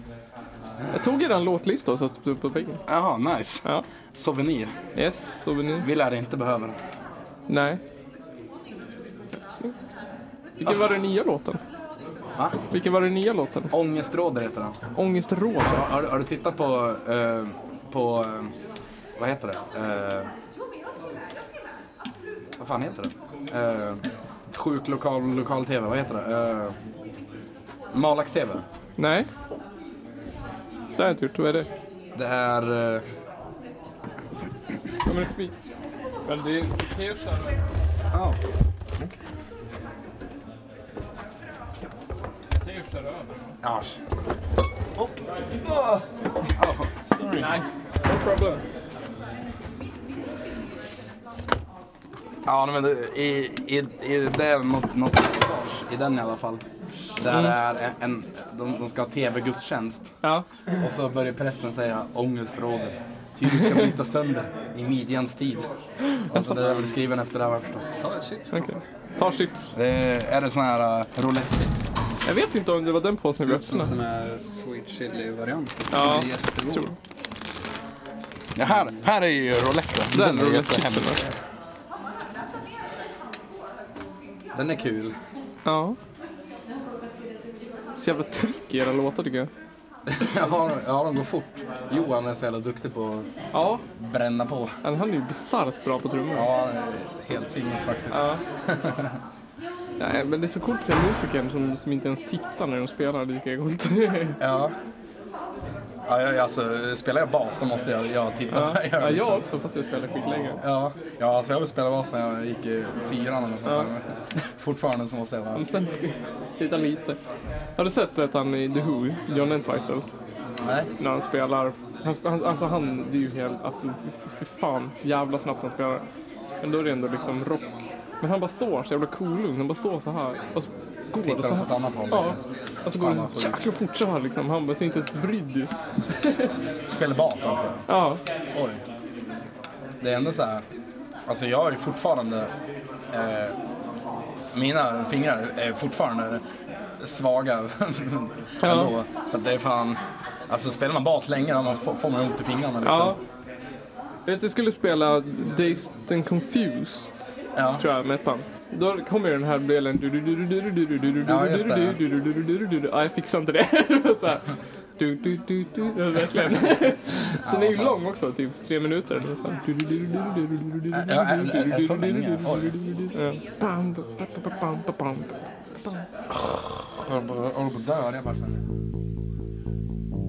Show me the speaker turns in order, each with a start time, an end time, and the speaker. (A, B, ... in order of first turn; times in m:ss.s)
0:00.9-0:02.8 A
0:02.9-0:04.7 B
0:04.9-0:05.9 A
0:05.8-0:06.8 B
0:07.5-0:07.8 A
0:09.5-0:09.7 A
0:10.6-0:11.6 A
0:12.7-0:13.7 A
0:13.7-0:14.8 B
0:14.9-0:15.9 A
0:15.6-0:18.5 B
0:19.2-0:20.3 B
0:22.6-0:26.8 B
0:27.9-0:28.6 B
0:29.0-0:29.3 A
0:31.0-0:31.7 A
0:32.1-0:33.0 B
0:35.0-0:35.6 A
0:36.2-0:37.6 A
0:38.1-0:38.4 B
0:42.6-0:43.3 A
0:43.6-0:44.0 B
0:46.6-0:47.5 B
0:47.3-0:48.6 A
0:52.4-0:56.6 B
0:57.2-1:00.1 B
0:57.3-0:57.6 A
1:00.7-1:05.7 B
1:06.2-1:06.5 A
1:06.3-1:07.9 B
1:08.0-1:08.8 C
1:08.5-1:09.7 A
1:09.7-1:11.9 B
1:12.2-1:13.9 A
1:13.4-1:16.6 C
1:15.9-1:16.9 A
1:16.0-1:16.8 B
1:18.5-1:21.3 B
1:20.1-1:21.2 A
1:24.5-1:25.1 B
1:25.6-1:26.0 A
1:27.9-1:29.5 A
1:30.1-1:33.3 B
1:33.5-1:33.8 A
1:34.0-1:34.7 B
1:34.8-1:36.5 A
1:36.3-1:39.2 B
1:38.1-1:38.4 A
1:40.0-1:44.4 A
1:44.4-1:44.7 B
1:46.0-1:49.4 B
1:48.5-1:50.6 A
1:50.6-1:55.6 B
1:53.6-1:53.9 A
1:55.5-1:57.2 A
1:57.8-2:00.1 A
2:00.6-2:00.9 B
2:01.0-2:06.0 A
2:06.6-2:16.5 A
2:11.2-2:13.6 B
2:16.8-2:17.8 B
2:17.9-2:18.2 A
2:18.5-2:18.8 B
2:20.0-2:20.6 B
2:21.3-2:22.5 B
2:23.1-2:23.6 B
2:24.5-2:26.4 B
2:27.0-2:33.2 B
2:28.6-2:28.9 A
2:32.8-2:33.2 A
2:34.3-2:56.0 A
2:37.5-2:37.8 B
2:41.2-2:42.0 B
2:47.2-2:48.0 B
2:50.9-2:53.0 B
2:57.0-2:58.6 B